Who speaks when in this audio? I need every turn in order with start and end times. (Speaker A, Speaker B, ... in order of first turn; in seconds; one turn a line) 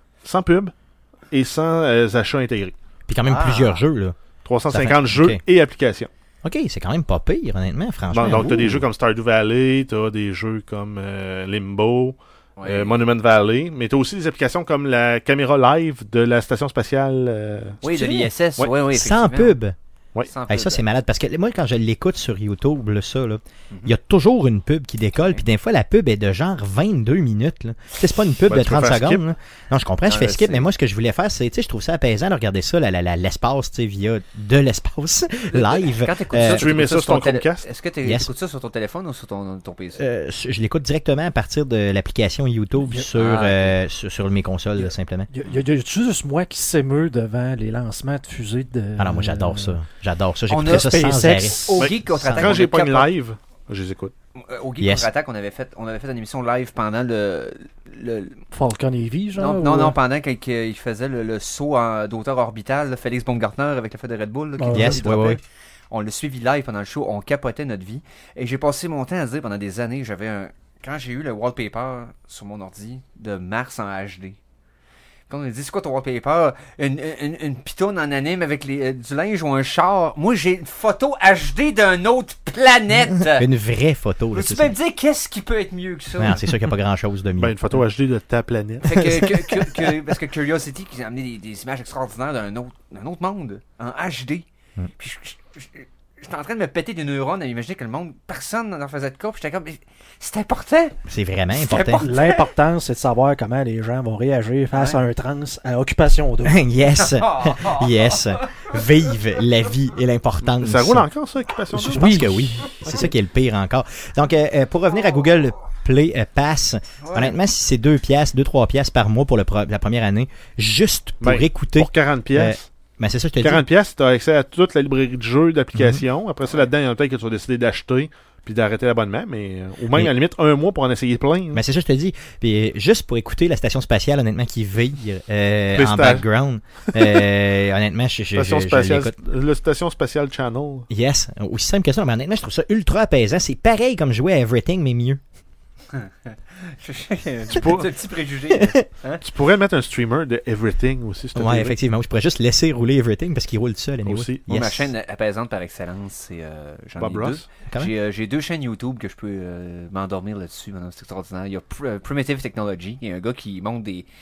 Speaker A: 0.2-0.7
Speaker A: 1.3-2.7
Speaker B: 3.1-4.2
Speaker C: 3.2-3.8
Speaker A: 4.5-6.1
Speaker B: 4.7-5.4
Speaker B: 6.4-8.8
Speaker A: 8.1-17.8
Speaker C: 12.6-12.9
Speaker C: 17.8-19.6
Speaker B: 17.9-19.8
Speaker C: 20.3-20.8
Speaker B: 20.5-36.7
Speaker A: 28.5-29.2
Speaker C: 30.1-30.7
Speaker C: 35.5-40.0
Speaker A: 36.4-37.7
Speaker B: 38.0-38.3
Speaker B: 40.0-45.3
Speaker C: 43.1-43.8
Speaker D: 44.8-49.8
Speaker B: 49.0-52.6
Speaker C: 50.5-53.1
Speaker D: 50.7-51.8
Speaker A: 51.8-54.1
Speaker C: 54.4-58.5
Speaker B: 54.8-55.1
Speaker D: 58.5-60.0
Speaker C: 59.4-74.4
Speaker D: 64.6-65.0
Speaker B: 64.7-65.4
Speaker C: 75.3-83.5
Speaker B: 83.1-84.7
Speaker C: 84.3-86.6
Speaker B: 86.2-87.5
Speaker A: 87.4-89.0
Speaker C: 88.8-94.5
Speaker B: 89.0-90.0
Speaker C: 95.0-101.0
Speaker B: 101.1-102.0
Speaker C: 101.5-102.5
Speaker D: 102.0-106.6
Speaker C: 104.7-105.0
Speaker B: 106.5-111.1
Speaker C: 107.0-108.8
Speaker A: 110.5-112.2
Speaker B: 111.7-123.6
Speaker D: 111.9-112.4
Speaker C: 117.0-117.4
Speaker A: 121.2-122.7
Speaker A: 123.4-131.6
Speaker B: 125.8-126.0
Speaker B: 131.5-139.2
Speaker A: 135.8-136.2
Speaker A: 136.9-137.2
Speaker A: 138.3-140.9
Speaker B: 140.9-145.2
Speaker C: 145.9-149.2
Speaker A: 147.5-147.9
Speaker B: 148.5-148.8
Speaker A: 149.2-151.8
Speaker B: 151.3-154.9
Speaker A: 154.1-154.5
Speaker C: 154.5-164.1
Speaker A: 157.0-157.5